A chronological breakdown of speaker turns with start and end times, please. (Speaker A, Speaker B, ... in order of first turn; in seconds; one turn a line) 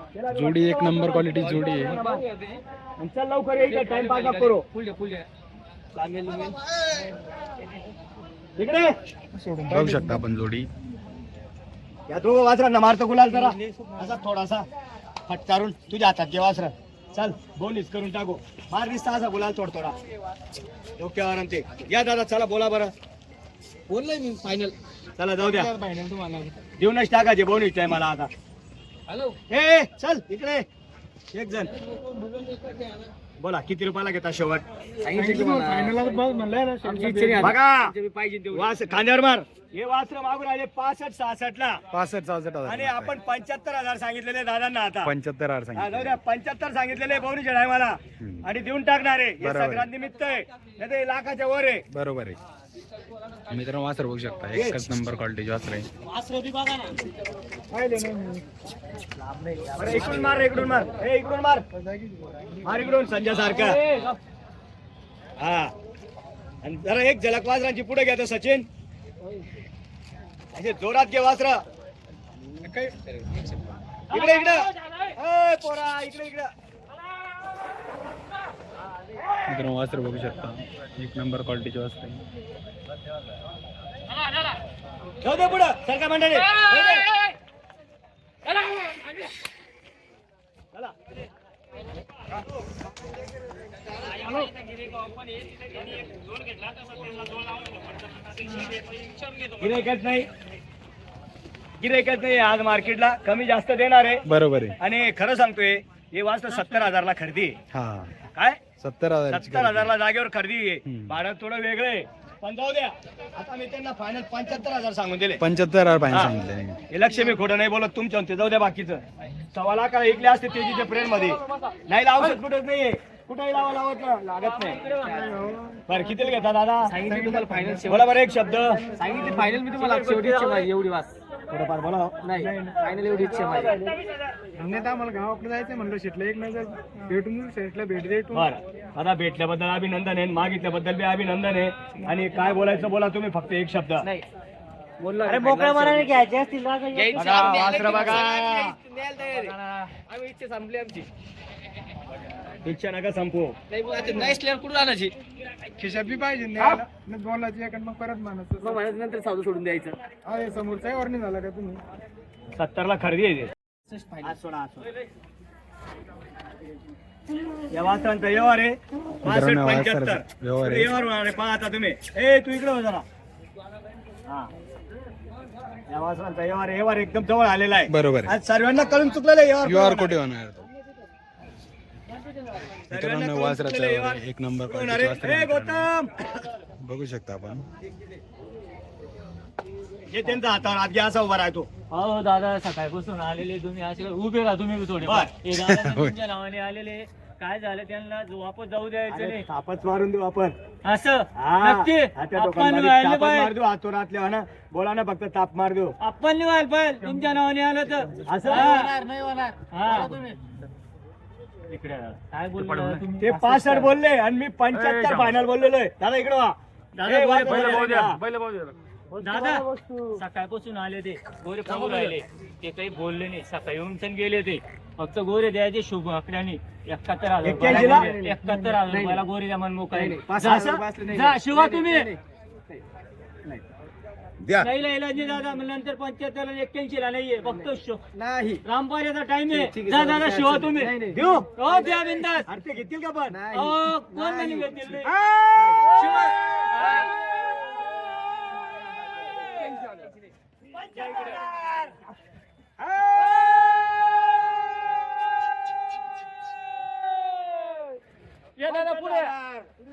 Speaker A: 0.1-2.2
Speaker B: 0.3-2.0
Speaker C: 2.0-2.5
Speaker A: 3.0-4.7
Speaker C: 3.6-5.2
Speaker C: 6.0-7.1
Speaker A: 8.6-8.9
Speaker D: 9.3-10.2
Speaker B: 9.7-10.7
Speaker A: 12.1-14.7
Speaker A: 15.2-19.9
Speaker A: 21.0-22.9
Speaker C: 23.9-24.7
Speaker A: 25.2-25.7
Speaker D: 25.4-26.6
Speaker A: 26.8-28.3
Speaker A: 29.5-30.6
Speaker A: 31.3-31.7
Speaker C: 32.3-32.8
Speaker A: 33.4-34.6
Speaker C: 35.0-36.0
Speaker D: 35.1-37.5
Speaker C: 36.8-38.8
Speaker A: 37.4-37.9
Speaker A: 38.5-41.8
Speaker B: 41.9-43.2
Speaker A: 42.6-45.1
Speaker B: 45.0-46.2
Speaker A: 45.7-51.8
Speaker B: 48.2-48.5
Speaker B: 49.4-49.9
Speaker B: 51.9-52.4
Speaker B: 53.5-55.9
Speaker E: 56.1-57.0
Speaker D: 57.7-58.4
Speaker E: 59.4-60.4
Speaker A: 59.8-61.6
Speaker D: 61.8-62.5
Speaker A: 62.6-63.8
Speaker E: 63.3-64.2
Speaker A: 65.4-65.7
Speaker A: 66.6-68.7
Speaker A: 70.5-71.6
Speaker E: 74.1-75.1
Speaker A: 74.1-76.5
Speaker B: 79.5-82.2
Speaker A: 85.2-87.1
Speaker A: 99.6-100.3
Speaker A: 101.8-104.2
Speaker B: 104.3-104.8
Speaker A: 104.8-107.6
Speaker B: 107.7-108.1
Speaker A: 108.3-108.6
Speaker B: 108.8-109.9
Speaker A: 109.3-115.4
Speaker B: 110.8-111.2
Speaker B: 115.4-116.8
Speaker A: 116.1-116.3
Speaker A: 116.9-124.8
Speaker E: 124.4-125.4
Speaker C: 125.0-125.4
Speaker D: 125.2-125.8
Speaker A: 125.9-126.9
Speaker C: 126.8-128.2
Speaker D: 127.0-127.8
Speaker A: 127.9-128.8
Speaker C: 128.9-131.1
Speaker E: 129.3-130.7
Speaker A: 131.5-132.8
Speaker C: 132.2-133.9
Speaker D: 134.6-138.5
Speaker A: 138.3-144.1
Speaker C: 145.0-146.1
Speaker E: 145.2-148.3
Speaker C: 146.9-151.1
Speaker A: 147.1-148.8
Speaker A: 152.6-153.5
Speaker C: 153.7-155.1
Speaker D: 155.8-158.8
Speaker C: 156.6-156.8
Speaker C: 158.6-160.0
Speaker D: 160.2-161.8
Speaker A: 162.5-163.5
Speaker C: 163.9-164.3
Speaker A: 164.2-164.9
Speaker A: 167.7-173.0
Speaker B: 169.2-170.9
Speaker A: 175.9-180.1
Speaker B: 177.9-178.3
Speaker B: 179.6-180.7
Speaker A: 182.9-186.3
Speaker B: 182.9-185.9
Speaker B: 186.8-187.7
Speaker A: 190.1-191.7
Speaker E: 191.9-199.4
Speaker A: 195.0-195.3
Speaker B: 195.5-196.2
Speaker A: 199.1-200.5
Speaker E: 200.8-203.5
Speaker A: 201.3-205.9
Speaker E: 206.0-209.0
Speaker A: 208.2-208.9
Speaker E: 209.7-210.2
Speaker E: 211.7-213.9
Speaker A: 213.2-218.2
Speaker E: 217.0-218.0
Speaker E: 219.2-230.2
Speaker C: 219.4-220.2
Speaker C: 221.7-222.1
Speaker A: 227.4-228.1
Speaker C: 227.6-229.2
Speaker C: 229.9-232.2
Speaker A: 230.3-230.8
Speaker E: 231.1-232.1
Speaker E: 234.6-238.0
Speaker C: 237.4-238.6
Speaker E: 238.6-242.4
Speaker C: 239.5-241.2
Speaker A: 241.1-241.4
Speaker C: 241.7-242.1
Speaker A: 242.4-243.4
Speaker C: 243.3-245.9
Speaker E: 243.5-245.1
Speaker A: 245.4-249.7
Speaker E: 245.8-247.6
Speaker E: 249.3-249.7
Speaker A: 250.8-251.9
Speaker E: 251.0-251.4
Speaker A: 252.8-253.9
Speaker E: 258.6-259.3
Speaker A: 258.7-259.7